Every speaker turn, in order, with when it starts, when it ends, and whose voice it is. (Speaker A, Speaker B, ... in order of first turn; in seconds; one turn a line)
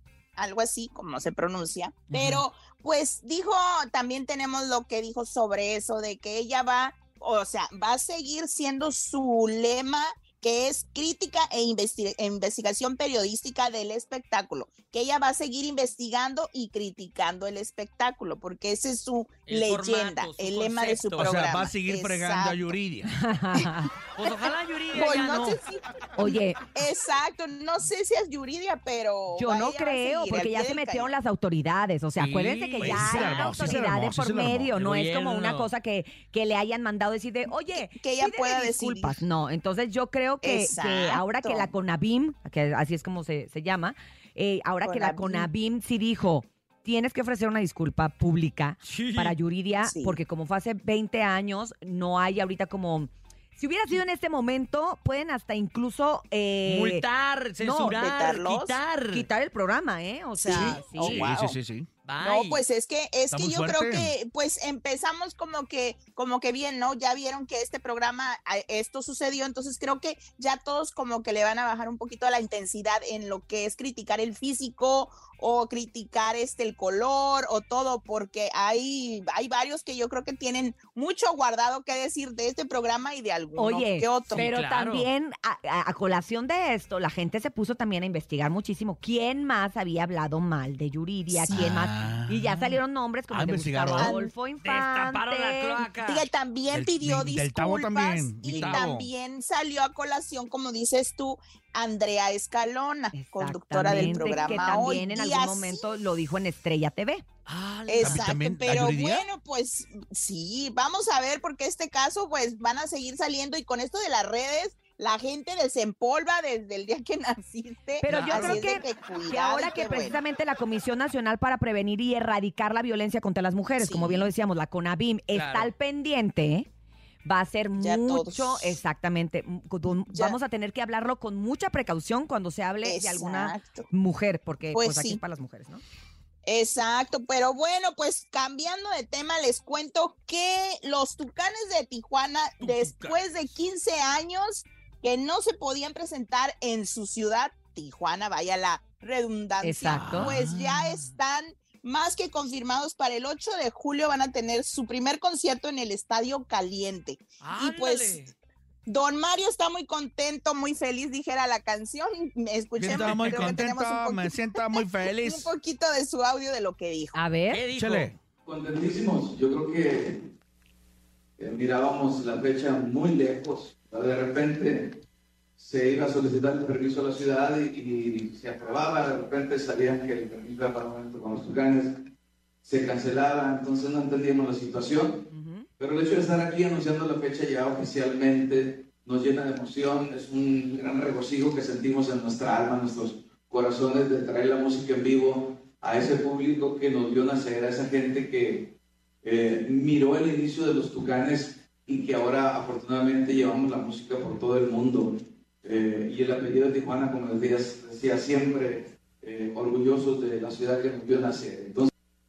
Speaker A: 0.3-22.7
Speaker B: 19.4-21.3
Speaker C: 21.1-23.1
Speaker D: 23.2-23.9
Speaker B: 24.1-25.6
Speaker A: 24.9-31.1
Speaker D: 26.2-26.6
Speaker D: 29.3-57.0
Speaker B: 32.1-33.7
Speaker C: 32.8-34.7
Speaker B: 34.7-35.7
Speaker A: 37.8-39.2
Speaker A: 40.4-41.7
Speaker A: 44.8-45.5
Speaker B: 48.8-49.4
Speaker A: 49.8-50.2
Speaker B: 56.6-59.3
Speaker D: 57.6-58.0
Speaker A: 57.8-58.8
Speaker D: 59.1-61.3
Speaker A: 60.4-61.5
Speaker B: 60.5-60.8
Speaker C: 60.6-61.9
Speaker B: 62.0-62.6
Speaker A: 62.2-84.5
Speaker C: 63.3-64.1
Speaker D: 83.5-95.8
Speaker B: 84.3-85.1
Speaker A: 91.3-91.8
Speaker C: 91.5-94.1
Speaker A: 93.9-94.3
Speaker B: 94.6-96.3
Speaker A: 96.0-105.8
Speaker C: 96.7-99.1
Speaker B: 98.5-98.9
Speaker D: 103.1-107.2
Speaker B: 103.8-105.0
Speaker B: 107.5-108.3
Speaker A: 107.9-120.2
Speaker C: 108.0-109.2
Speaker D: 118.0-126.7
Speaker B: 118.1-118.5
Speaker C: 118.1-118.6
Speaker A: 123.8-124.3
Speaker B: 125.3-125.7
Speaker D: 127.2-135.8
Speaker A: 127.8-128.8
Speaker A: 130.1-130.4
Speaker A: 132.8-133.9
Speaker A: 134.7-135.2
Speaker A: 136.4-158.3
Speaker D: 149.6-150.3
Speaker C: 149.9-151.1
Speaker B: 157.4-158.3
Speaker A: 158.9-167.2
Speaker C: 162.8-165.5
Speaker E: 163.0-163.3
Speaker D: 167.1-167.6
Speaker B: 167.5-168.1
Speaker C: 167.7-168.2
Speaker E: 168.4-170.2
Speaker E: 171.4-175.0
Speaker E: 175.6-181.9
Speaker E: 182.6-185.2
Speaker D: 185.3-185.7
Speaker E: 185.8-211.9